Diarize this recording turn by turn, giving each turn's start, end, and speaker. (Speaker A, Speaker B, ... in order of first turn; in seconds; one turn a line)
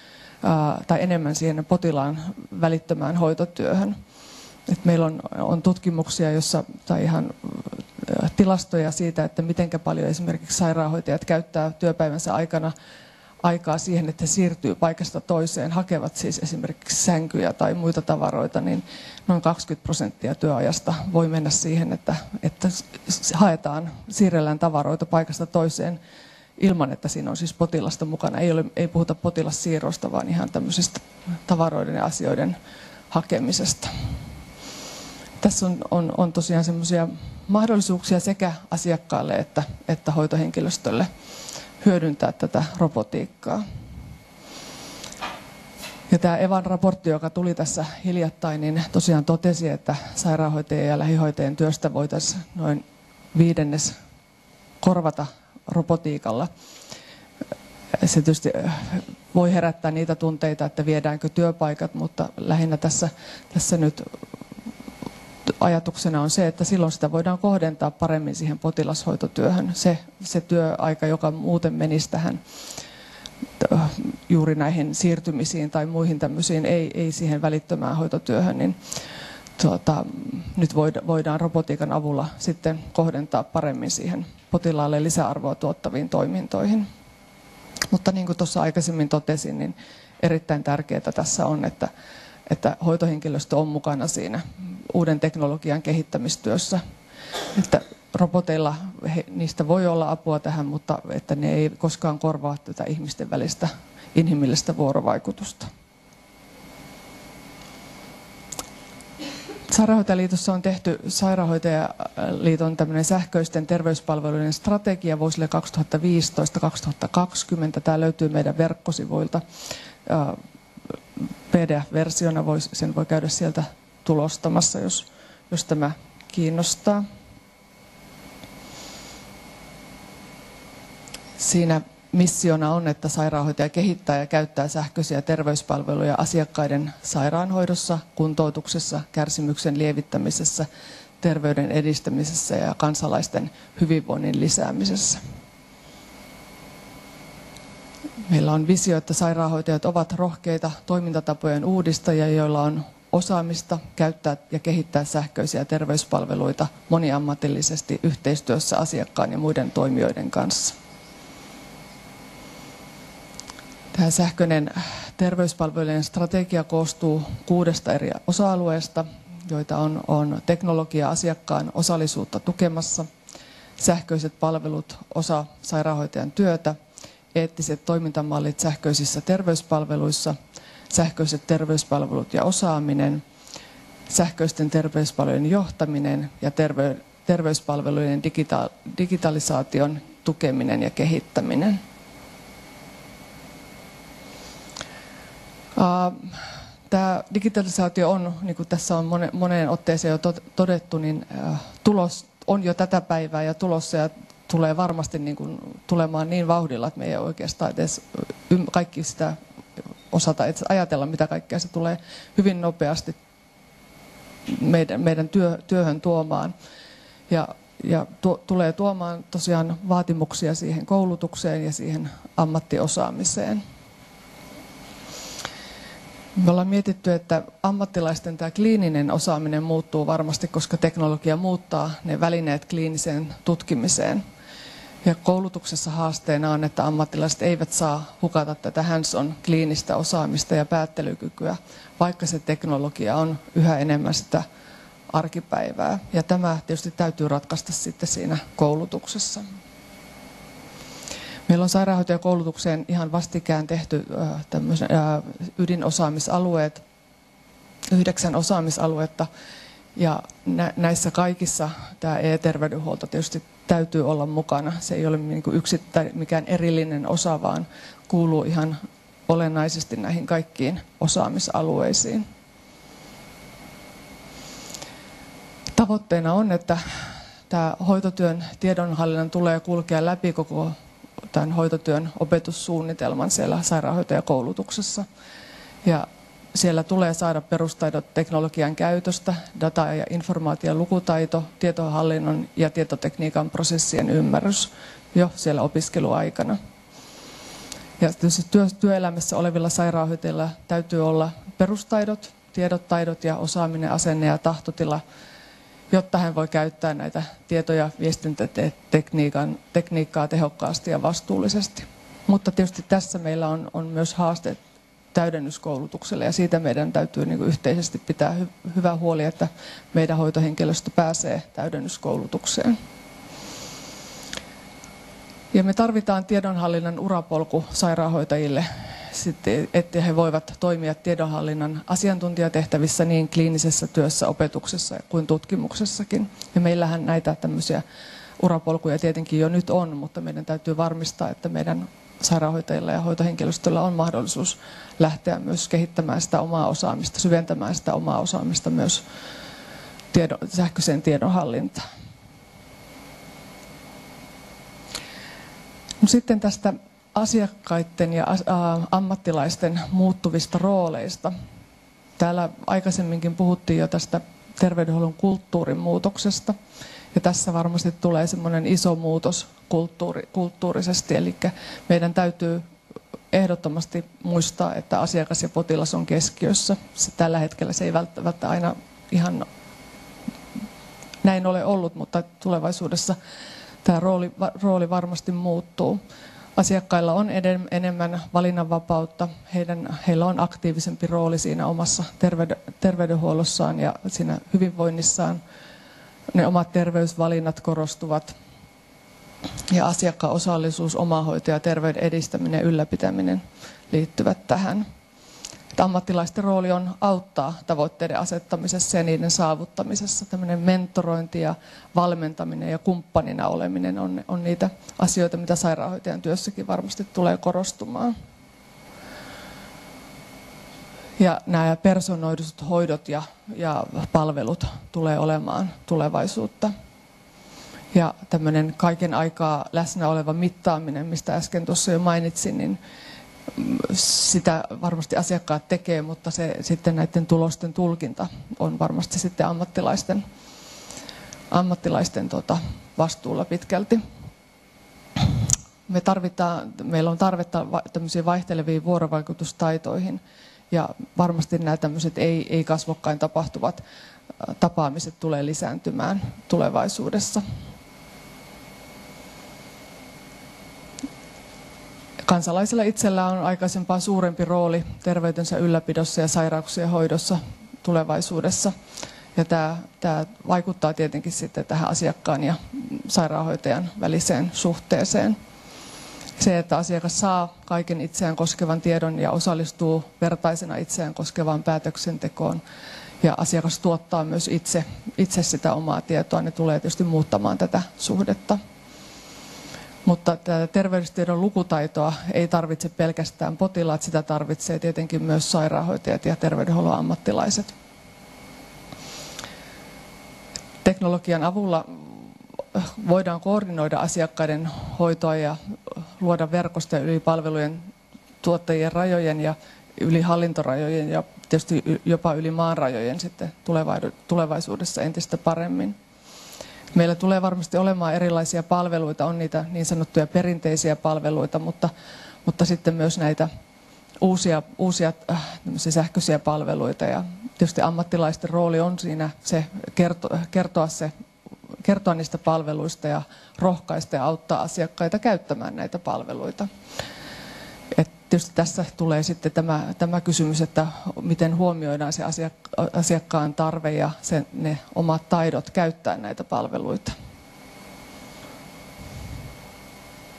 Speaker A: 0.4-4.0
Speaker A: 4.7-12.7
Speaker A: 13.4-26.0
Speaker A: 26.6-32.6
Speaker A: 33.1-33.9
Speaker A: 35.4-41.1
Speaker A: 41.8-43.6
Speaker A: 46.1-53.9
Speaker A: 54.8-56.5
Speaker A: 58.0-64.1
Speaker A: 65.6-72.4
Speaker A: 73.6-78.8
Speaker A: 79.6-86.9
Speaker A: 87.9-91.9
Speaker A: 92.5-96.8
Speaker A: 97.5-105.7
Speaker A: 109.7-119.4
Speaker A: 120.1-120.4
Speaker A: 121.5-127.0
Speaker A: 131.4-140.7
Speaker A: 141.2-145.2
Speaker A: 148.3-160.8
Speaker A: 163.9-173.1
Speaker A: 173.8-176.8
Speaker A: 177.3-180.4
Speaker A: 180.9-183.2
Speaker A: 184.1-191.8
Speaker A: 195.8-196.4
Speaker A: 196.9-209.4
Speaker A: 210.1-213.2
Speaker A: 214.5-216.5
Speaker A: 217.3-223.6
Speaker A: 226.4-234.2
Speaker A: 235.0-244.4
Speaker A: 245.1-249.5
Speaker A: 251.5-256.8
Speaker A: 257.9-259.3
Speaker A: 260.0-272.2
Speaker A: 275.8-276.8
Speaker A: 277.5-280.8
Speaker A: 281.3-285.1
Speaker A: 285.9-296.6
Speaker A: 298.0-305.0
Speaker A: 305.9-314.6
Speaker A: 315.1-322.8
Speaker A: 325.5-337.8
Speaker A: 338.4-349.0
Speaker A: 350.1-351.8
Speaker A: 356.0-361.3
Speaker A: 362.2-366.6
Speaker A: 367.1-372.6
Speaker A: 373.3-379.5
Speaker A: 381.2-383.2
Speaker A: 383.8-386.0
Speaker A: 386.6-395.4
Speaker A: 396.3-398.3
Speaker A: 399.7-404.9
Speaker A: 405.8-418.1
Speaker A: 421.2-426.7
Speaker A: 427.9-432.8
Speaker A: 433.6-440.2
Speaker A: 441.5-444.0
Speaker A: 445.9-453.8
Speaker A: 454.4-457.4
Speaker A: 462.3-468.7
Speaker A: 469.4-475.4
Speaker A: 476.4-482.6
Speaker A: 483.2-488.6
Speaker A: 490.1-497.7
Speaker A: 500.8-505.6
Speaker A: 506.2-507.9
Speaker A: 508.4-516.0
Speaker A: 516.9-521.9
Speaker A: 522.5-523.5
Speaker A: 524.2-531.1
Speaker A: 531.8-536.7
Speaker A: 537.9-547.1